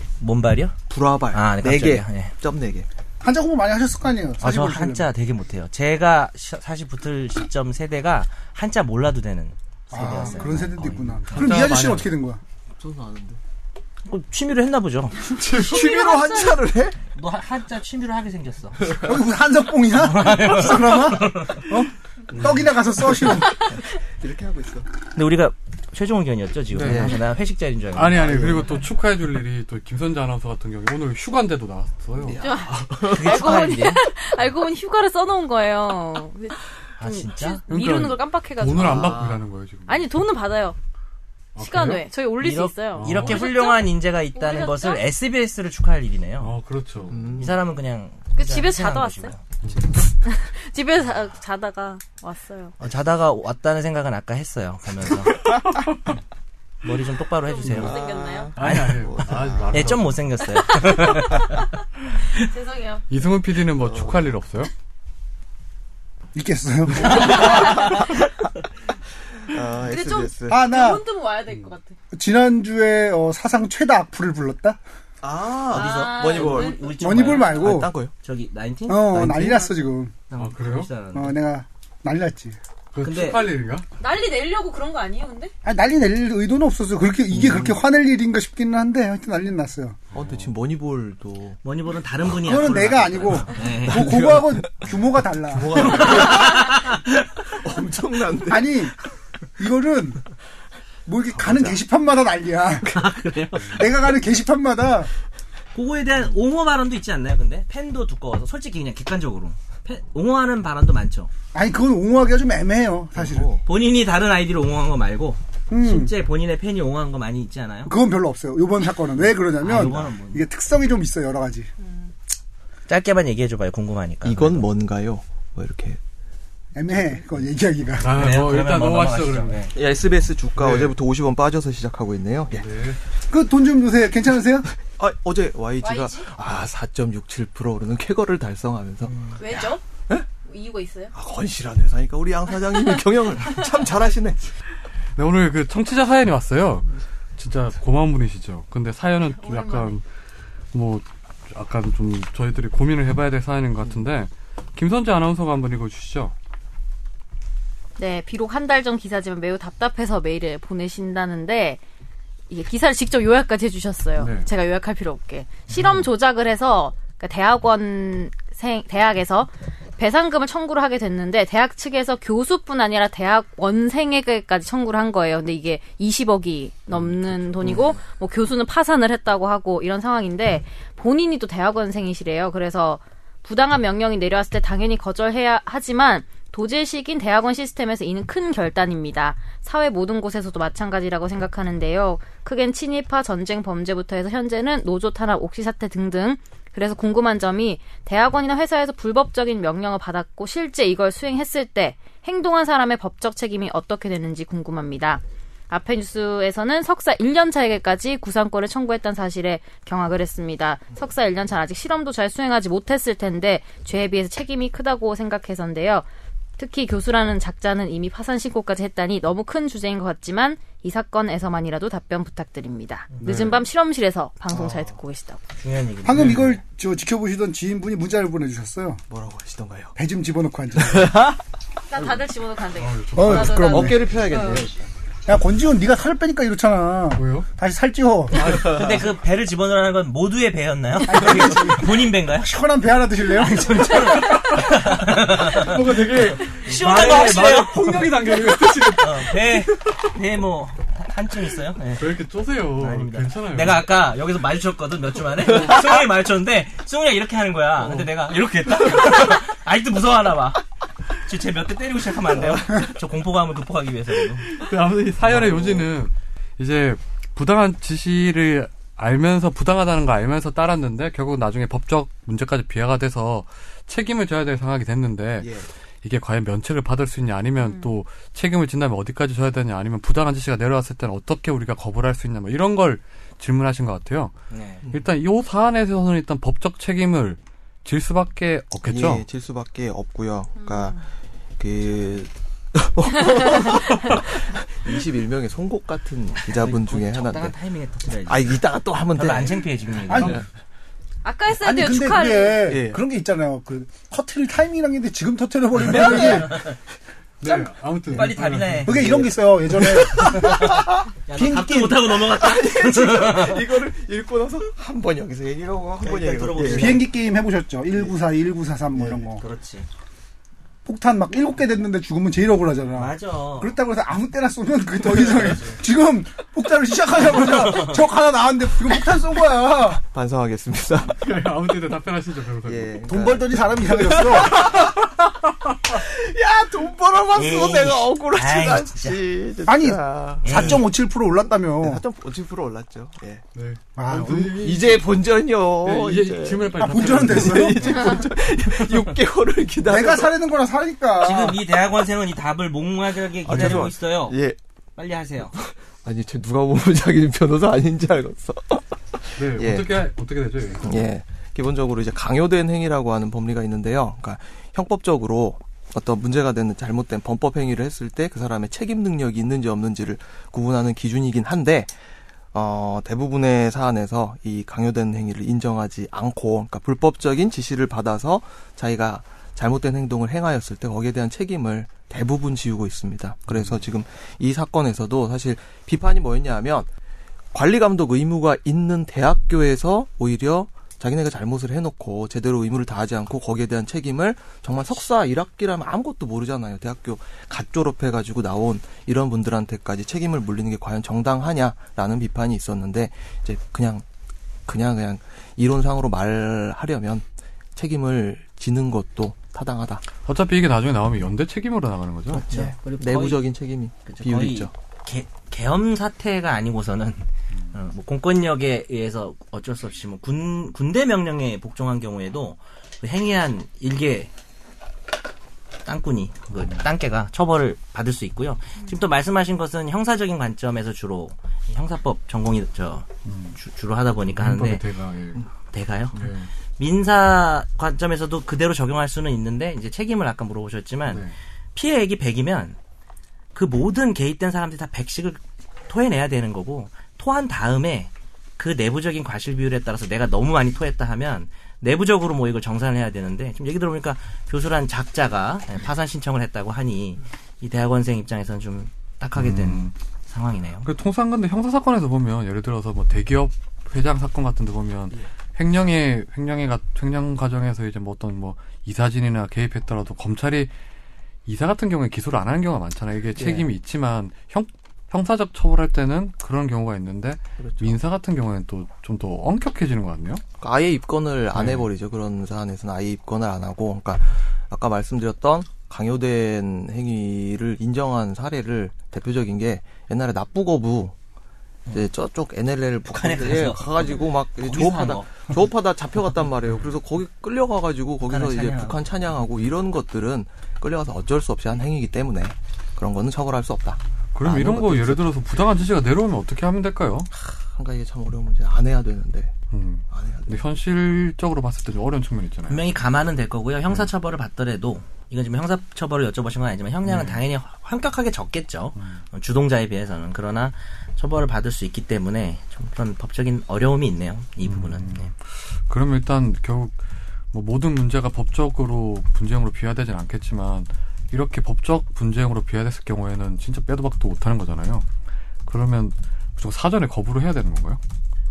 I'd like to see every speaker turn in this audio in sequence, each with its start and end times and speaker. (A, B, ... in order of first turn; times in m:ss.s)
0:00.2-0:00.8 A
0:00.9-0:02.9 B
0:01.3-0:02.3 A
0:03.2-0:05.0 C
0:04.4-0:11.6 A
0:09.9-0:12.4 C
0:10.1-0:10.4 D
0:11.3-0:12.1 E
0:12.8-0:13.4 B
0:14.0-0:15.2 A
0:15.2-0:17.0 B
0:15.5-0:16.6 D
0:17.1-0:18.9 A
0:19.0-0:23.6 C
0:19.9-0:21.7 A
0:22.3-0:23.4 B
0:24.1-0:24.9 B
0:25.1-0:28.6 A
0:26.7-0:27.2 E
0:26.8-0:27.2 B
0:27.9-0:32.4 E
0:28.1-0:28.8 B
0:32.2-0:33.7 B
0:32.4-0:39.2 D
0:33.1-0:34.0 A
0:37.0-0:37.6 A
0:37.7-0:40.1 E
0:38.8-0:39.4 B
0:39.9-0:40.8 D
0:41.6-0:42.1 E
0:41.6-0:45.0 D
0:42.4-0:46.5 A
0:42.9-0:43.5 E
0:46.4-0:47.3 E
0:47.1-0:47.6 B
0:47.3-0:49.4 A
0:48.3-0:49.3 D
0:50.2-0:52.7 D
0:52.8-0:55.5 A
0:56.8-0:58.0 A
0:57.4-0:58.5 D
0:57.6-1:00.0 B
0:58.6-1:00.2 E
0:58.6-1:01.7 A
1:00.6-1:01.6 D
1:02.3-1:03.0 D
1:03.1-1:04.7 E
1:03.8-1:04.3 B
1:06.3-1:07.8 C
1:07.0-1:08.1 B
1:07.3-1:08.2 D
1:09.4-1:10.6 B
1:09.8-1:12.0 D
1:10.5-1:11.0 C
1:12.1-1:14.8 C
1:15.2-1:16.8 B
1:15.7-1:17.0 D
1:15.7-1:19.7 A
1:17.0-1:17.9 C
1:17.4-1:18.1 B
1:18.9-1:20.1 C
1:20.3-1:21.4 A
1:20.4-1:20.9 E
1:21.1-1:22.6 C
1:22.9-1:23.8 E
1:23.0-1:23.5 A
1:24.0-1:25.5 D
1:25.6-1:30.0 C
1:27.3-1:27.8 B
1:30.1-1:30.5 E
1:30.1-1:31.6 B
1:31.6-1:34.2 A
1:32.4-1:36.3 C
1:33.8-1:34.9 B
1:35.5-1:38.8 B
1:35.8-1:37.2 A
1:38.4-1:38.9 C
1:39.6-1:40.2 C
1:41.0-1:42.9 C
1:41.3-1:41.8 B
1:42.8-1:43.9 A
1:43.6-1:45.1 C
1:45.7-1:51.3 A
1:51.5-1:53.5 C
1:53.1-1:53.6 B
1:53.6-1:57.9 A
1:55.7-1:56.1 C
1:57.8-2:01.7 C
1:59.2-2:00.4 A
2:01.8-2:02.1 D
2:02.9-2:04.7 A
2:04.2-2:06.0 B
2:06.7-2:08.1 C
2:08.0-2:09.6 E
2:08.1-2:09.7 A
2:09.7-2:12.7 B
2:10.5-2:10.9 E
2:12.5-2:13.0 E
2:13.3-2:14.7 C
2:14.9-2:20.3 B
2:15.8-2:16.3 D
2:19.4-2:19.8 D
2:20.4-2:21.1 D
2:21.1-2:24.5 B
2:25.2-2:30.0 E
2:29.3-2:30.0 D
2:30.7-2:36.3 E
2:38.0-2:41.8 D
2:42.5-3:36.1 D
2:44.2-2:44.5 E
2:45.7-2:46.0 E
2:57.5-2:58.0 B
3:36.6-3:45.4 D
3:43.2-3:43.6 E
3:44.5-3:45.0 B
3:45.6-3:46.6 A
3:46.0-3:49.0 C
3:46.1-3:46.5 E
3:49.1-3:49.9 B
3:50.0-3:51.4 C
3:50.9-3:51.4 B
3:51.9-3:54.7 D
3:52.8-3:53.6 E
3:53.1-3:54.0 C
3:53.6-3:54.8 B
3:55.2-3:58.6 C
3:57.2-3:57.5 E
3:58.4-3:58.9 E
3:58.4-3:59.0 B
3:58.5-4:02.5 A
4:01.0-4:03.8 C
4:03.3-4:08.1 A
4:04.0-4:09.5 E
4:08.8-4:12.2 A
4:11.9-4:13.9 E
4:12.7-4:20.6 A
4:15.5-4:15.8 E
4:17.8-4:18.1 E
4:21.1-4:24.5 A
4:24.5-4:44.3 E
4:25.2-4:25.9 B
4:35.4-4:35.7 B
4:37.6-4:37.9 D
4:44.5-4:44.8 A
4:44.9-4:49.2 E
4:48.9-4:51.0 B
4:50.6-4:51.0 D
4:51.6-4:57.6 B
4:56.4-4:58.6 A
4:58.3-4:59.7 B
4:59.1-5:00.4 A
5:00.1-5:00.4 C
5:01.2-5:02.7 D
5:01.6-5:06.6 C
5:02.6-5:03.0 B
5:05.8-5:06.7 A
5:06.0-5:06.2 B
5:07.4-5:09.0 E
5:08.1-5:09.3 A
5:08.1-5:10.8 C
5:08.9-5:11.0 B
5:10.1-5:13.8 A
5:11.3-5:12.2 C
5:12.2-5:17.0 B
5:16.0-5:17.1 A
5:16.6-5:19.4 C
5:19.4-5:19.9 A
5:20.8-5:30.0 C
5:22.9-5:23.7 A
5:27.3-5:28.0 A
5:30.0-5:31.2 B
5:31.1-5:33.0 E
5:32.6-5:35.1 B
5:33.0-5:34.7 C
5:35.8-5:40.8 B
5:37.3-5:39.2 A
5:39.6-5:42.0 C
5:40.4-5:40.8 A
5:41.8-5:43.4 B
5:43.5-5:45.1 E
5:44.0-5:44.8 C
5:44.1-5:50.3 B
5:45.8-5:48.0 E
5:46.8-5:48.1 C
5:49.8-5:51.6 C
5:51.2-5:54.4 A
5:53.4-5:54.6 B
5:53.5-5:53.8 E
5:55.0-5:55.6 A
5:55.6-6:00.0 B
5:59.4-6:01.0 E
6:00.8-6:11.9 B
6:12.5-6:26.9 B
6:23.5-6:23.8 E
6:27.5-6:44.0 B
6:44.6-6:50.0 B
6:50.2-6:52.4 E
6:52.3-6:54.7 B
6:52.5-6:53.4 A
6:54.0-7:04.3 A
7:05.8-7:14.8 A
7:06.6-7:06.8 E
7:13.2-7:13.6 E
7:14.3-7:15.4 E
7:15.7-7:22.8 A
7:16.1-7:16.5 E
7:21.1-7:21.3 E
7:23.5-7:40.9 A
7:39.3-7:39.9 E
7:40.8-7:50.7 E
7:51.4-8:00.4 E
7:53.4-7:53.7 B
7:57.6-7:58.0 B
8:00.6-8:11.1 B
8:01.5-8:01.8 E
8:11.9-8:25.3 B
8:13.1-8:15.6 A
8:18.3-8:19.0 A
8:24.3-8:27.3 E
8:27.3-8:29.5 B
8:29.7-8:32.8 E
8:30.1-8:30.6 B
8:32.7-8:45.3 A
8:37.0-8:37.4 E
8:39.0-8:39.2 E
8:44.6-8:47.0 E
8:47.5-8:55.0 E
8:55.6-8:58.0 E